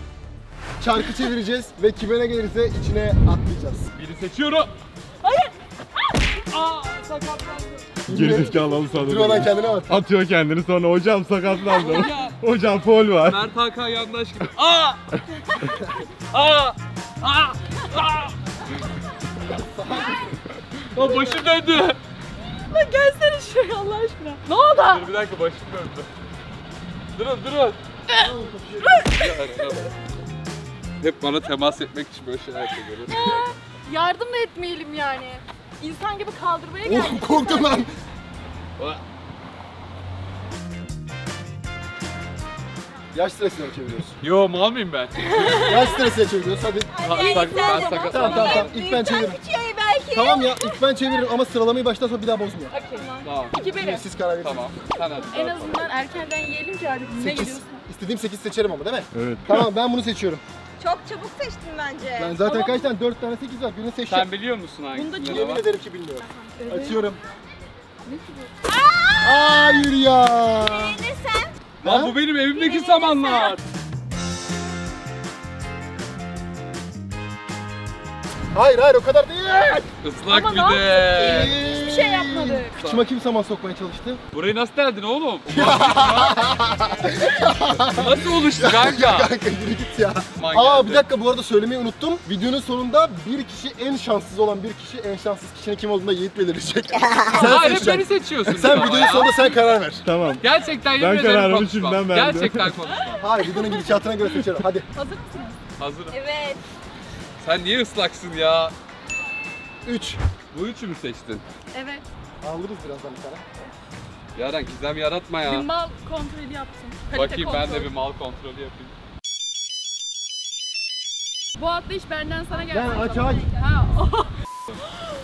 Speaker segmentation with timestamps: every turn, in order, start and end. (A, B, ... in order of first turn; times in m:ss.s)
0:00.8-0:03.9 A
0:03.9-0:04.7 B
0:05.2-0:05.5 C
0:06.5-0:07.1 B
0:06.5-0:07.8 C
0:08.0-0:10.0 A
0:08.1-0:13.4 D
0:11.6-0:12.4 B
0:13.2-0:15.0 B
0:16.3-0:18.3 B
0:19.5-0:20.3 A
0:20.9-0:22.0 B
0:21.0-0:21.3 E
0:22.7-0:25.1 C
0:24.9-0:26.1 B
0:27.1-0:27.8 B
0:28.1-0:29.0 A
0:28.8-0:29.8 C
0:29.1-0:29.9 B
0:31.0-0:33.4 B
0:33.1-0:37.8 C
0:36.8-0:37.9 A
0:43.1-0:44.2 A
0:44.2-0:45.7 B
0:45.2-0:46.0 E
0:45.5-0:47.3 A
0:46.9-0:50.8 E
0:47.0-0:48.7 B
0:48.0-0:49.4 A
0:50.1-0:52.7 A
0:52.7-0:54.0 C
0:52.7-0:53.6 E
0:53.2-0:53.6 B
0:53.6-0:54.6 A
0:54.4-0:55.9 B
0:55.3-0:57.8 C
0:57.1-1:00.4 A
0:59.1-0:59.7 D
1:00.8-1:02.4 E
1:02.2-1:04.3 A
1:02.4-1:02.9 C
1:04.1-1:05.6 B
1:04.9-1:05.5 C
1:05.2-1:07.2 A
1:06.4-1:07.0 C
1:08.0-1:08.5 C
1:08.6-1:09.8 E
1:09.2-1:11.0 A
1:10.6-1:11.6 E
1:11.8-1:13.6 B
1:11.8-1:12.1 A
1:12.5-1:13.6 E
1:18.5-1:19.8 A
1:20.0-1:21.6 B
1:20.3-1:22.8 C
1:21.1-1:24.2 A
1:24.3-1:26.4 B
1:25.5-1:40.0 A
1:26.3-1:26.8 C
1:28.0-1:29.3 B
1:30.4-1:31.0 B
1:37.0-1:37.6 E
1:37.3-1:39.6 B
1:37.5-1:37.8 C
1:40.0-1:42.8 D
1:40.4-1:43.2 B
1:42.9-1:43.8 C
1:43.2-1:44.9 A
1:44.9-1:45.6 C
1:45.8-1:46.2 B
1:46.1-1:46.6 E
1:47.4-1:48.7 B
1:49.8-1:50.2 A
1:50.5-1:51.4 B
1:51.7-1:52.0 C
1:52.4-1:53.4 A
1:54.3-1:55.7 B
1:55.4-1:57.9 C
1:57.1-1:58.9 B
2:01.6-2:04.3 C
2:02.7-2:03.4 A